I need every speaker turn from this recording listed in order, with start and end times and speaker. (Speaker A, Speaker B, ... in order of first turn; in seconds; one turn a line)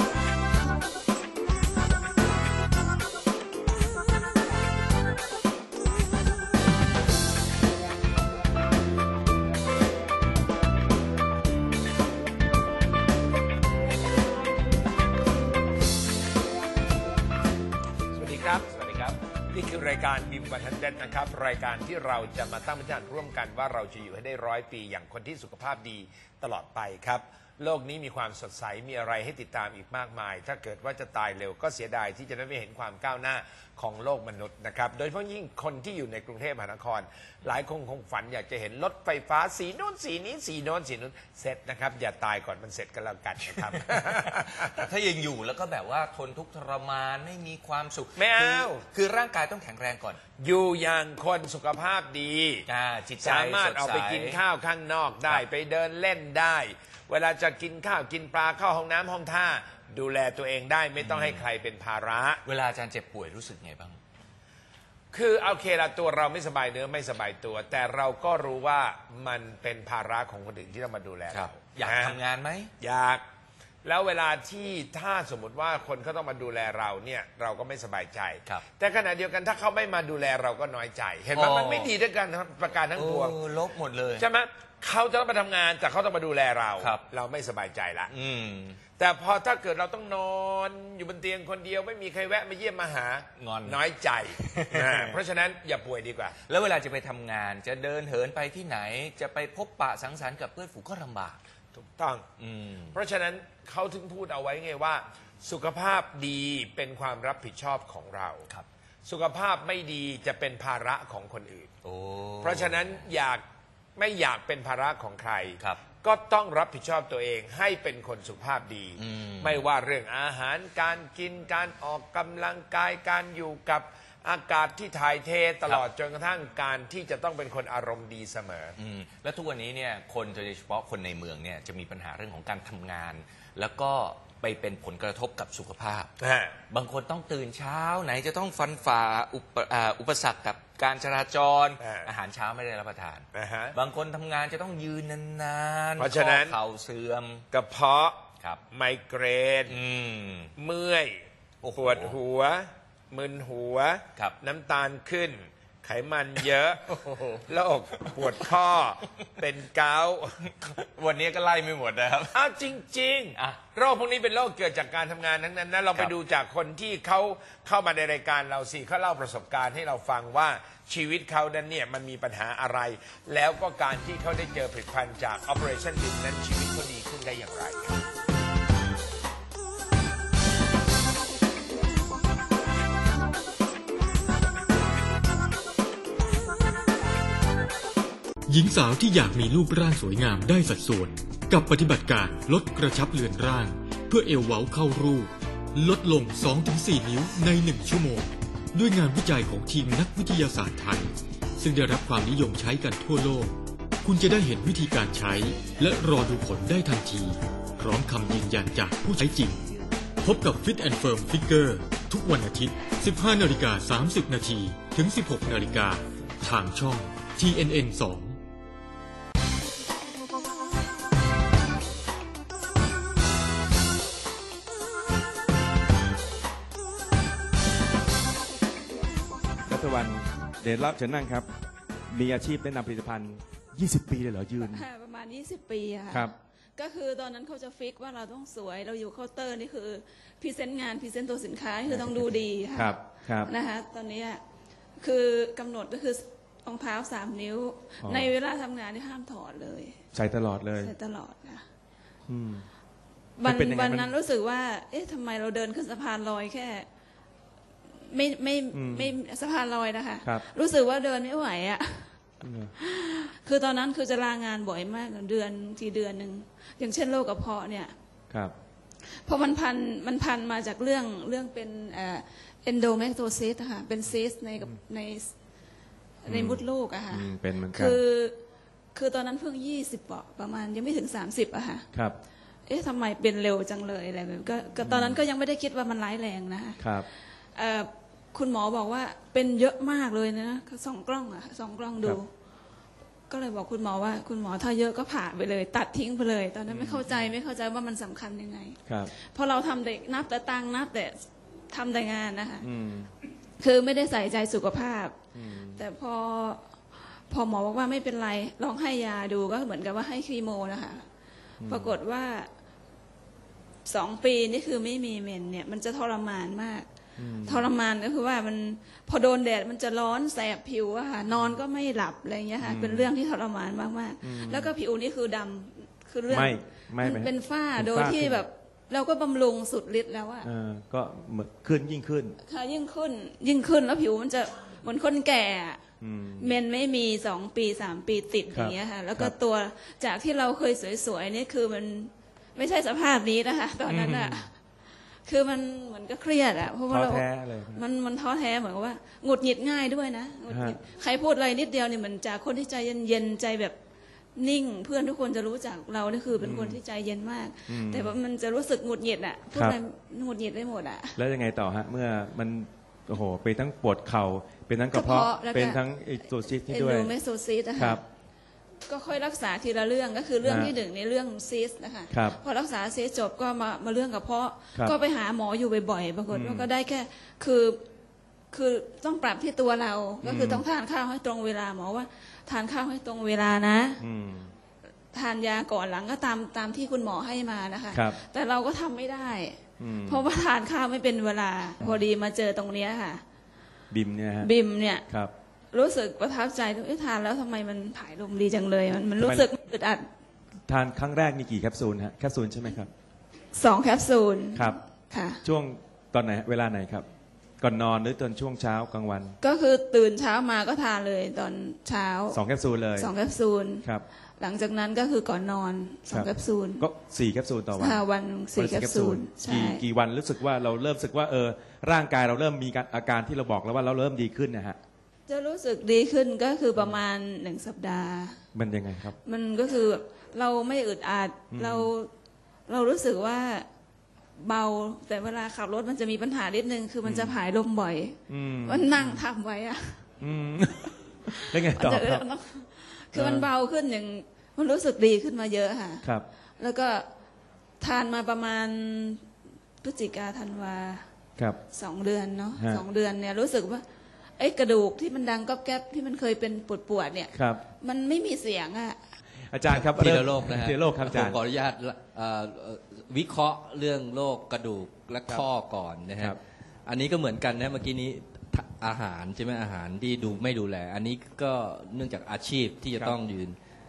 Speaker A: 18.1-44.8
Speaker B: 44.8-50.2
Speaker A: 48.1-48.9
Speaker A: 50.4-52.6
Speaker B: 52.7-54.4
Speaker A: 53.2-62.4
Speaker B: 61.0-61.4
Speaker B: 62.4-64.0
Speaker A: 65.1-72.2
Speaker B: 71.3-72.7
Speaker A: 72.8-73.2
Speaker A: 73.8-83.4
Speaker B: 81.3-81.9
Speaker B: 82.9-84.2
Speaker A: 84.2-88.1
Speaker B: 86.8-87.0
Speaker B: 88.1-88.8
Speaker A: 88.9-96.3
Speaker B: 93.4-93.8
Speaker B: 94.3-95.2
Speaker B: 96.4-101.4
Speaker A: 101.8-102.2
Speaker B: 102.4-102.9
Speaker A: 102.9-108.4
Speaker A: 109.0-111.7
Speaker B: 111.8-113.0
Speaker A: 112.4-113.4
Speaker A: 114.0-128.7
Speaker B: 115.6-115.8
Speaker B: 119.0-119.6
Speaker B: 128.8-136.1
Speaker A: 136.2-136.6
Speaker B: 136.7-147.4
Speaker A: 141.8-142.1
Speaker A: 143.3-143.7
Speaker A: 146.0-146.6
Speaker A: 147.5-149.8
Speaker B: 149.7-150.5
Speaker A: 150.6-151.2
Speaker B: 151.6-152.2
Speaker A: 151.8-156.9
Speaker B: 156.9-157.4
Speaker A: 157.5-160.4
Speaker B: 160.6-162.4
Speaker A: 162.3-178.0
Speaker B: 163.3-163.6
Speaker C: 188.5-209.6
Speaker C: 210.2-218.4
Speaker D: 229.7-231.5
Speaker D: 232.1-234.8
Speaker E: 234.6-244.4
Speaker D: 241.9-243.5
Speaker E: 245.0-250.0
Speaker D: 248.0-248.3
Speaker D: 250.1-250.9
Speaker E: 250.8-251.6
Speaker D: 252.3-252.7
Speaker E: 253.4-256.9
Speaker D: 253.4-254.1
Speaker E: 258.1-262.1
Speaker D: 258.7-259.1
Speaker D: 262.4-262.7
Speaker E: 262.8-267.9
Speaker E: 269.1-275.3
Speaker E: 276.2-278.4
Speaker D: 276.3-278.0
Speaker E: 278.9-281.9
Speaker E: 282.7-286.9
Speaker D: 284.8-285.2
Speaker D: 286.8-287.1
Speaker E: 287.6-292.3
Speaker E: 293.3-301.2
Speaker D: 296.7-297.3
Speaker E: 301.7-302.7
Speaker D: 302.6-303.1
Speaker E: 303.6-305.1
Speaker D: 305.3-305.8
Speaker E: 305.7-306.7
Speaker E: 307.3-311.1
Speaker D: 311.6-311.9
Speaker E: 311.6-312.5
Speaker E: 313.8-316.9
Speaker D: 317.2-317.7
Speaker E: 317.4-330.5
Speaker D: 322.6-323.1
Speaker D: 324.2-324.7
Speaker D: 326.3-328.4
Speaker D: 330.4-332.4
Speaker E: 332.4-335.8
Speaker D: 336.0-336.6
Speaker E: 336.4-344.5
Speaker D: 338.5-339.3
Speaker D: 343.9-344.4
Speaker E: 345.2-353.7
Speaker D: 346.9-347.8
Speaker D: 350.5-350.8
Speaker E: 354.4-361.2
Speaker D: 356.4-356.8
Speaker D: 357.7-358.1
Speaker D: 361.2-367.1
Speaker E: 364.9-365.8
Speaker E: 366.7-368.0
Speaker D: 367.8-368.0
Speaker E: 368.9-377.8
Speaker D: 370.4-370.7
Speaker D: 372.1-372.4
Speaker D: 376.3-376.7
Speaker E: 378.5-384.0
Speaker D: 380.2-380.6
Speaker D: 384.0-384.5
Speaker E: 385.1-393.2
Speaker D: 387.9-388.2
Speaker D: 389.8-390.2
Speaker D: 393.9-394.5
Speaker E: 394.4-395.0
Speaker E: 395.7-400.1
Speaker D: 399.2-399.5
Speaker D: 400.7-402.9
Speaker E: 403.5-405.4
Speaker D: 405.4-407.1
Speaker D: 407.6-409.4
Speaker E: 409.4-412.4
Speaker D: 412.3-413.1
Speaker E: 413.0-413.9
Speaker E: 414.4-416.9
Speaker D: 416.1-418.0
Speaker E: 417.8-419.8
Speaker D: 418.5-424.8
Speaker E: 425.3-428.4
Speaker D: 428.5-429.1
Speaker E: 429.2-432.1
Speaker D: 431.5-431.9
Speaker E: 432.7-433.6
Speaker E: 434.4-440.0
Speaker D: 437.0-437.4
Speaker D: 438.3-439.2
Speaker D: 440.2-442.2
Speaker E: 441.4-447.0
Speaker D: 443.1-443.5
Speaker E: 447.8-449.2
Speaker E: 449.8-451.1
Speaker E: 451.7-453.8
Speaker D: 452.6-452.8
Speaker E: 454.4-459.0
Speaker D: 457.3-457.6
Speaker D: 459.5-461.4
Speaker F: 459.7-473.6